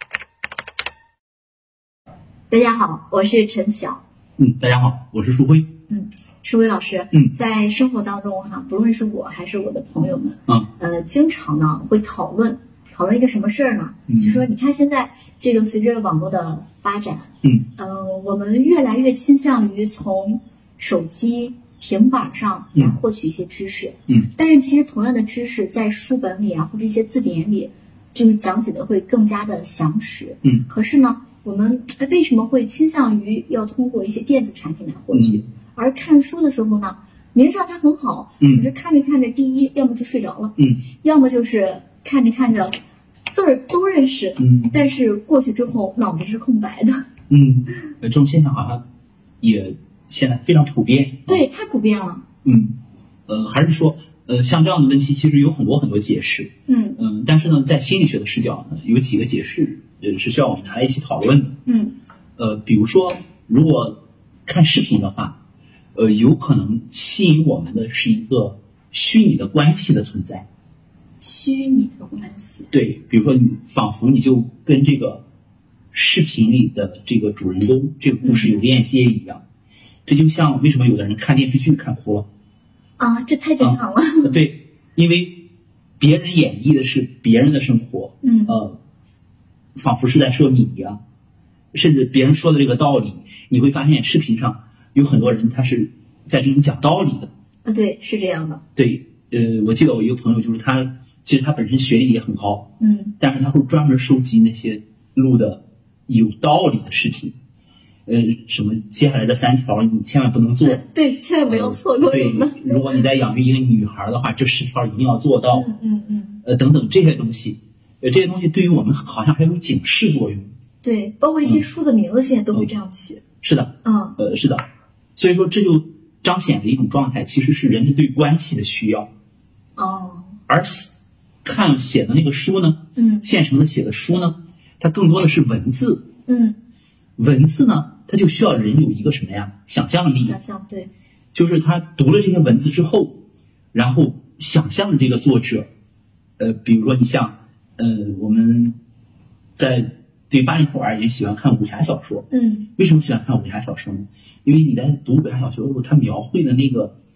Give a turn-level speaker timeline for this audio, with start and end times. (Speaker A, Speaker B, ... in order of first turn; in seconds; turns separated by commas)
Speaker A: 2.5-4.0, Speaker B: 4.4-5.7, Speaker A: 5.9-42.8, Speaker B: 14.1-14.5, Speaker B: 35.1-35.4, Speaker B: 38.4-38.7, Speaker B: 40.6-40.8, Speaker A: 43.3-47.0, Speaker B: 44.4-44.8, Speaker B: 47.3-48.8, Speaker B: 49.4-51.5, Speaker A: 51.3-52.2, Speaker B: 52.4-52.8, Speaker B: 53.3-61.6, Speaker A: 56.7-57.0, Speaker A: 61.7-62.0, Speaker B: 62.4-65.4, Speaker B: 66.0-70.5, Speaker A: 71.2-72.7, Speaker B: 72.7-75.2, Speaker B: 75.9-79.4, Speaker A: 78.2-78.6, Speaker B: 80.1-82.3, Speaker A: 83.0-84.4, Speaker B: 83.6-85.4, Speaker B: 86.0-88.8, Speaker A: 88.2-88.6, Speaker B: 89.8-91.0, Speaker B: 91.7-97.3, Speaker A: 97.7-98.6, Speaker B: 98.8-102.7, Speaker A: 102.8-103.2, Speaker B: 103.2-107.4, Speaker B: 108.1-110.8, Speaker A: 110.6-113.0, Speaker B: 111.5-115.7, Speaker A: 115.5-116.4, Speaker B: 116.4-120.5, Speaker A: 120.8-123.2, Speaker B: 123.4-124.6, Speaker A: 123.8-124.2, Speaker B: 125.2-129.1, Speaker A: 129.8-130.4, Speaker B: 130.5-130.9, Speaker B: 131.4-136.1, Speaker A: 133.0-133.3, Speaker A: 136.3-136.6, Speaker B: 137.2-140.4, Speaker A: 140.2-140.9, Speaker B: 141.3-143.2, Speaker B: 143.7-145.7, Speaker B: 146.4-148.8, Speaker B: 149.6-152.3, Speaker A: 152.3-152.7, Speaker B: 152.8-156.9